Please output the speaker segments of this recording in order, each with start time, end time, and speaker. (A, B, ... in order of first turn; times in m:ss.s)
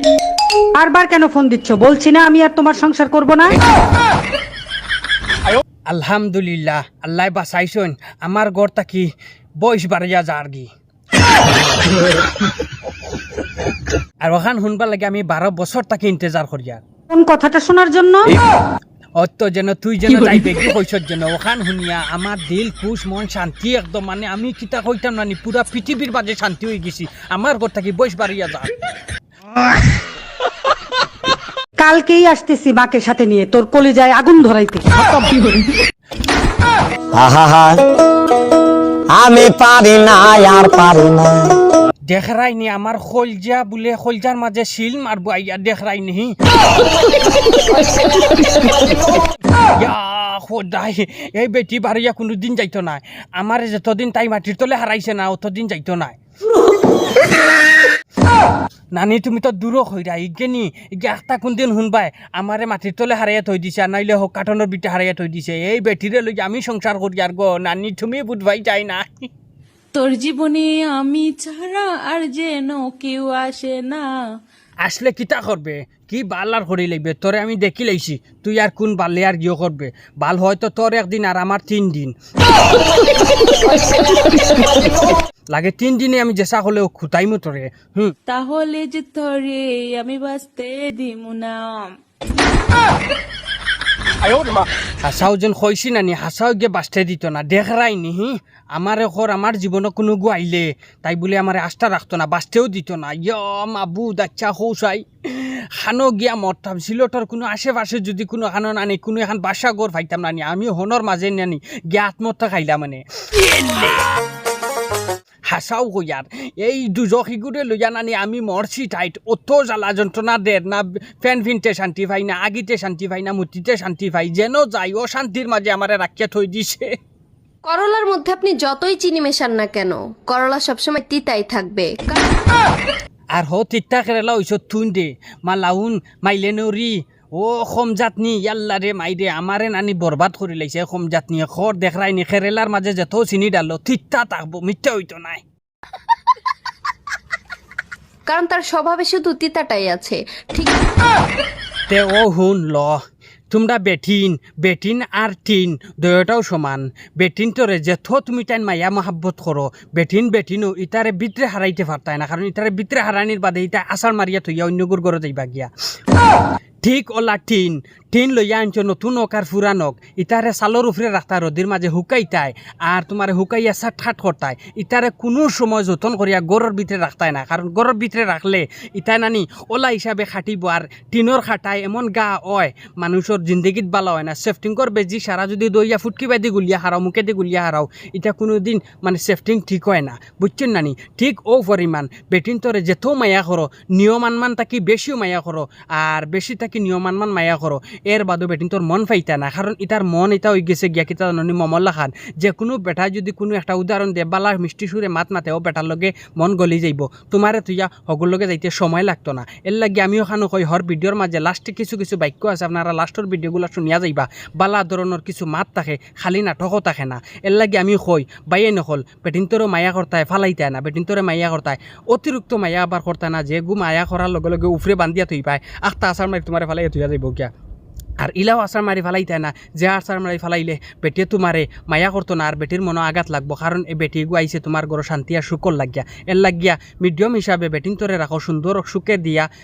0:00.8-0:03.6 A
0:05.9-0:10.7 B
0:14.2-0:16.8 B
0:17.1-0:18.3 A
0:19.2-0:28.7 B
0:31.8-0:34.8 A
0:35.1-0:35.5 C
0:37.1-0:37.8 D
0:39.1-0:41.5 D
0:42.1-0:46.4 B
0:49.8-0:56.2 B
0:58.9-1:09.3 B
1:09.9-1:14.1 C
1:14.8-1:22.1 B
1:24.1-1:24.7 C
1:25.5-1:28.1 B
1:28.3-1:31.9 C
1:35.0-1:54.0 B
1:55.5-2:07.0 B
2:07.6-2:12.3 E
2:13.3-2:25.4 B
2:28.3-2:30.8 E
2:31.9-2:45.7 B
2:46.8-3:47.5 B
3:48.2-3:59.5 B